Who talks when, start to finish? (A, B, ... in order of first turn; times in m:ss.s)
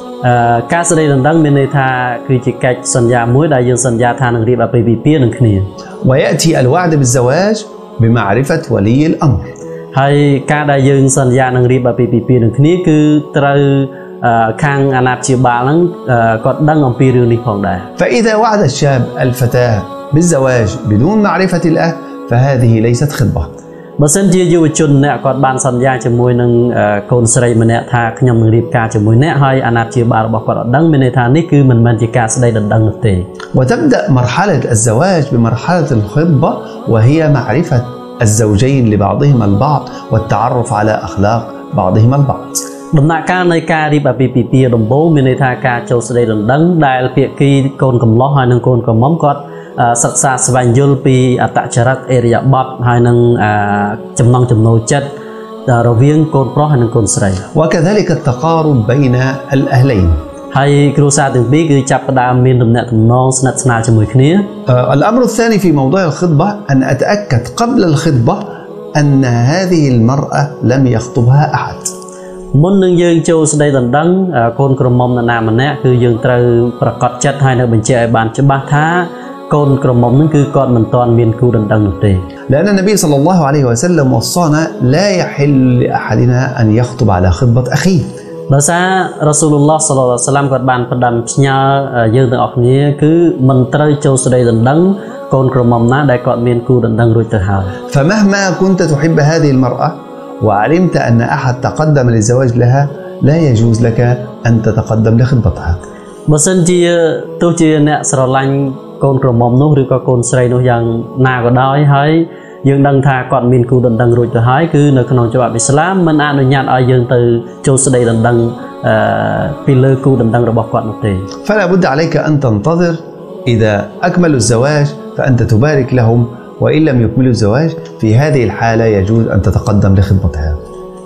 0:00.2-0:05.7 A
0:06.0-0:09.4 B
0:09.9-0:17.9 A
0:18.0-0:23.5 B
0:24.0-0:33.2 A
0:33.5-0:42.6 B
0:42.9-0:55.1 A
0:55.7-0:57.4 A
0:57.5-1:00.2 B
1:00.5-1:04.5 A
1:04.7-1:11.9 B
1:12.5-1:22.2 A
1:22.5-1:28.1 B
1:28.5-1:37.8 A
1:37.9-1:45.8 B
1:46.3-2:01.3 A
2:01.4-2:10.6 B